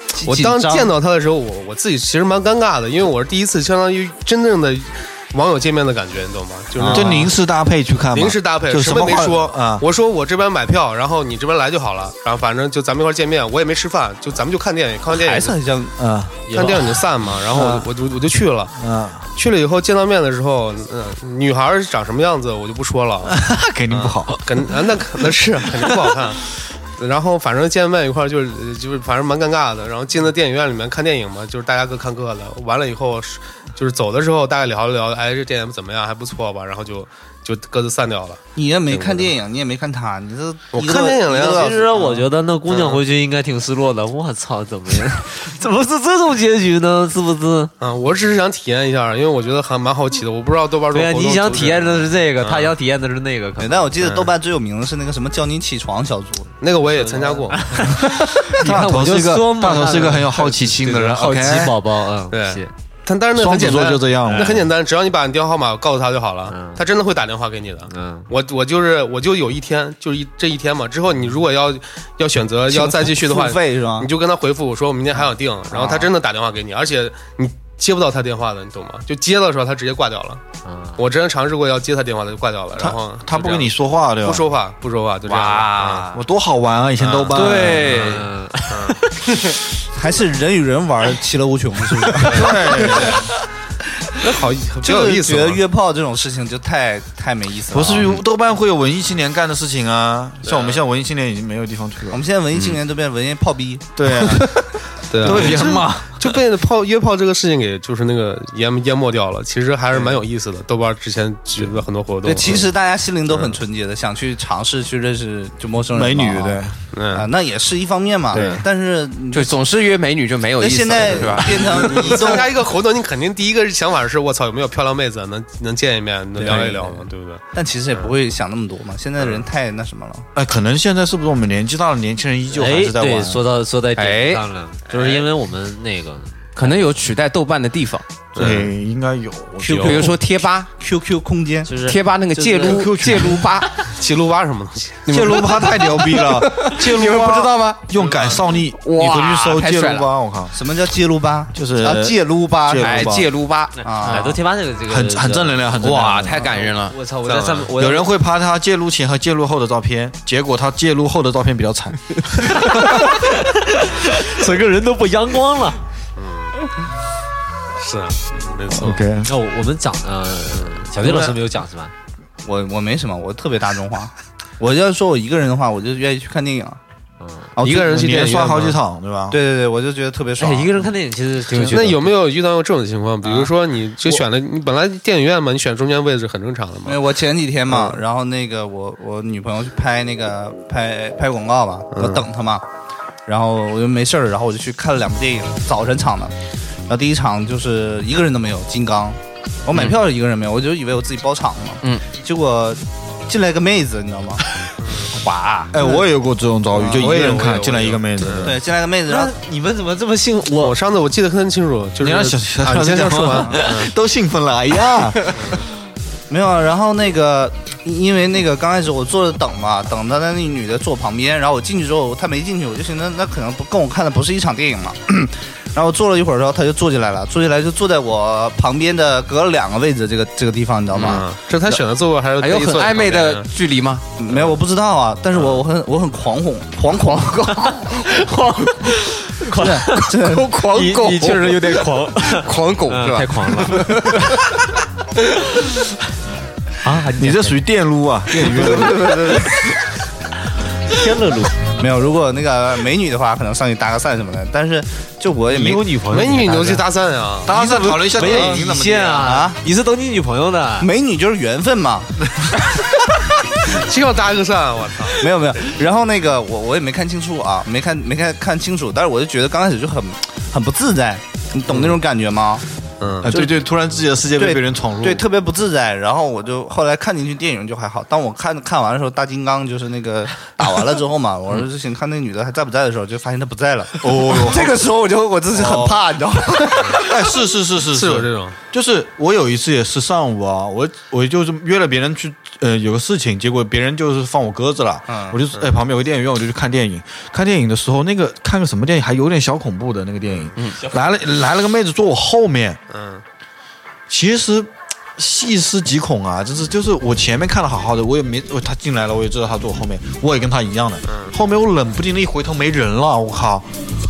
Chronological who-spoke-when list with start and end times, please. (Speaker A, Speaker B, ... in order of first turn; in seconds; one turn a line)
Speaker A: 0.2-0.9
Speaker B: 0.2-7.3
Speaker A: 6.8-7.2
Speaker C: 6.8-9.8
Speaker B: 8.1-15.6
Speaker A: 15.1-16.0
Speaker C: 16.0-16.9
Speaker D: 16.5-16.9
Speaker B: 16.5-18.8
Speaker C: 17.5-17.9
Speaker C: 18.8-19.2
Speaker B: 19.3-23.4
Speaker C: 23.2-24.7
Speaker B: 23.9-39.3
Speaker A: 38.5-42.3
Speaker B: 40.7-41.7
Speaker D: 41.4-47.7
Speaker B: 42.7-43.0
Speaker B: 47.8-52.7
Speaker D: 50.9-53.9
Speaker A: 53.6-56.6
Speaker B: 54.0-54.3
Speaker B: 56.6-57.9
Speaker D: 57.0-62.7
Speaker C: 58.1-61.7
Speaker B: 62.3-80.4
Speaker C: 63.3-64.7
Speaker D: 66.5-66.8
Speaker D: 67.9-68.3
Speaker A: 72.7-74.1
Speaker A: 75.7-76.1
Speaker D: 80.6-81.0
Speaker B: 81.0-83.7
Speaker C: 82.8-84.4
Speaker B: 84.2-86.1
Speaker E: 85.2-86.2
Speaker C: 86.1-88.1
Speaker B: 87.0-89.6
Speaker E: 87.3-88.3
Speaker D: 87.9-89.1
Speaker A: 89.9-93.1
Speaker B: 92.2-93.2
Speaker C: 92.2-93.3
Speaker B: 94.2-95.6
Speaker A: 94.8-98.2
Speaker C: 97.7-102.2
Speaker B: 100.5-100.8
Speaker A: 102.1-104.5
Speaker E: 102.5-102.8
Speaker C: 104.0-104.6
Speaker B: 105.1-112.7
Speaker C: 105.2-106.3
Speaker A: 112.2-119.6
Speaker B: 113.3-113.6
Speaker C: 115.9-116.8
Speaker B: 116.9-117.3
Speaker E: 119.3-122.3
Speaker A: 120.6-122.6
Speaker B: 121.6-128.1
Speaker D: 126.3-127.0
Speaker A: 126.4-126.8
Speaker A: 127.5-130.3
Speaker B: 129.2-129.4
Speaker C: 130.3-133.4
Speaker D: 132.5-136.8
Speaker E: 134.0-134.4
Speaker B: 134.9-135.2
Speaker E: 136.6-138.1
Speaker B: 138.3-138.7
Speaker C: 138.3-140.2
Speaker B: 139.6-140.1
Speaker E: 139.8-140.7
Speaker A: 140.8-141.7
Speaker D: 141.7-142.8
Speaker E: 141.8-143.9
Speaker A: 142.4-142.7
Speaker C: 142.6-143.5
Speaker B: 143.8-145.5
Speaker C: 145.1-150.6
Speaker E: 145.1-147.9
Speaker B: 147.9-148.4
Speaker E: 148.8-150.1
Speaker A: 150.5-153.2
Speaker C: 151.5-153.3
Speaker E: 152.8-154.4
Speaker D: 153.8-155.8
Speaker A: 153.8-154.4
Speaker C: 154.9-156.5
Speaker E: 155.8-156.9
Speaker D: 156.4-158.1
Speaker B: 157.2-157.7
Speaker C: 157.8-163.2
Speaker D: 162.4-165.8
Speaker B: 166.2-166.5
Speaker B: 167.8-169.0
Speaker C: 168.7-169.3
Speaker D: 169.2-171.9
Speaker B: 170.5-171.3
Speaker A: 172.4-176.8
Speaker D: 177.2-177.5
Speaker A: 177.6-178.5
Speaker B: 177.6-178.8
Speaker C: 177.7-179.4
Speaker A: 179.3-180.9
Speaker D: 180.4-182.1
Speaker B: 181.6-187.0
Speaker A: 183.2-183.5
Speaker A: 186.8-192.6
Speaker B: 187.7-187.9
Speaker B: 191.9-192.2
Speaker A: 193.3-196.3
Speaker A: 196.9-204.4
Speaker E: 199.7-200.0
Speaker B: 204.8-205.1
Speaker A: 205.2-206.0
Speaker C: 205.7-208.6
Speaker A: 206.7-207.2
Speaker B: 206.9-208.6
Speaker A: 208.4-209.3
Speaker D: 209.1-210.8
Speaker B: 210.6-213.9
Speaker C: 212.0-215.6
Speaker B: 215.3-215.6
Speaker A: 216.3-231.2
Speaker E: 230.9-231.2
Speaker B: 230.9-233.5
Speaker E: 232.4-234.0
Speaker A: 234.2-238.2
Speaker D: 237.6-244.4
Speaker A: 239.4-240.6
Speaker E: 240.3-244.5
Speaker D: 246.8-247.6
Speaker C: 247.2-249.3
Speaker D: 248.4-249.5
Speaker A: 248.4-249.5
Speaker D: 250.9-251.5
Speaker A: 251.8-255.9
Speaker C: 255.5-256.7
Speaker D: 255.6-256.8
Speaker B: 256.1-257.5
Speaker C: 257.4-259.3
Speaker D: 257.5-260.9
Speaker A: 258.2-259.6
Speaker A: 260.8-262.8
Speaker B: 263.6-265.3
Speaker A: 265.2-272.6
Speaker B: 271.7-272.0
Speaker B: 273.0-273.3
Speaker C: 273.2-275.2
Speaker A: 273.2-273.5
Speaker A: 274.4-287.4
Speaker C: 284.0-284.9
Speaker C: 285.5-286.0
Speaker C: 286.9-302.8
Speaker B: 287.8-288.6
Speaker A: 295.1-295.4
Speaker B: 302.9-303.2
Speaker C: 304.1-313.7
Speaker B: 311.1-311.3